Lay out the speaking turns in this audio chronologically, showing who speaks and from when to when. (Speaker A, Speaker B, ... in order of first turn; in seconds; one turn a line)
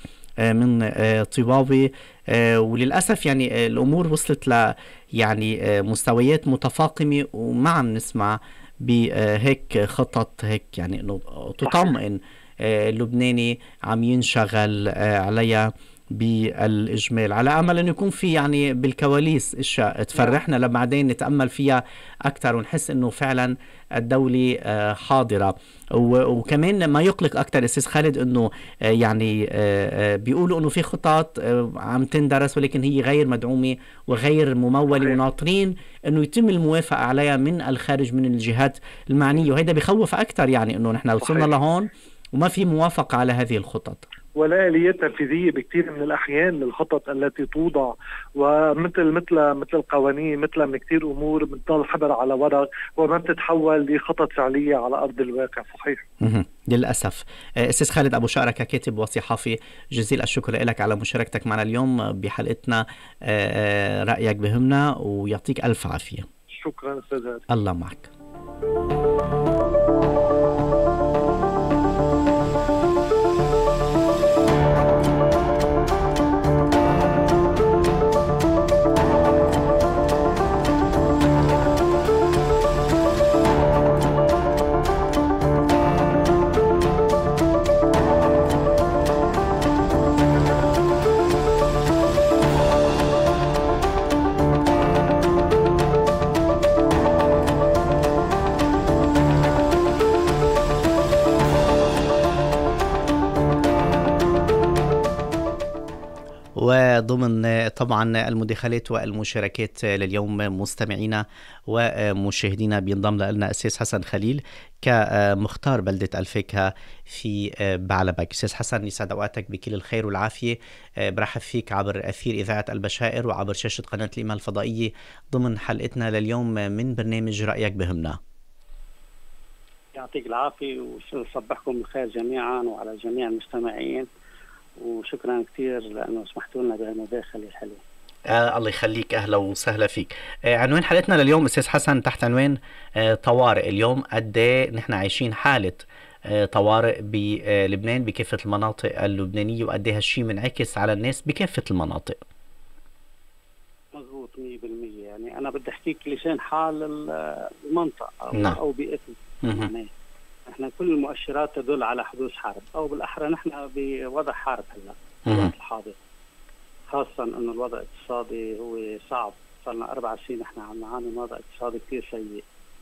Speaker A: 0.4-44.1
Speaker B: 41.2-41.5
Speaker B: 44.4-56.0
Speaker A: 56.2-66.3
Speaker B: 66.5-67.5
Speaker A: 67.5-68.1
Speaker A: 106.6-128.2
Speaker C: 129.9-134.1
Speaker C: 134.8-137.8
Speaker A: 138.3-152.2
Speaker C: 153.9-159.9
Speaker C: 160.5-166.0
Speaker C: 166.9-172.4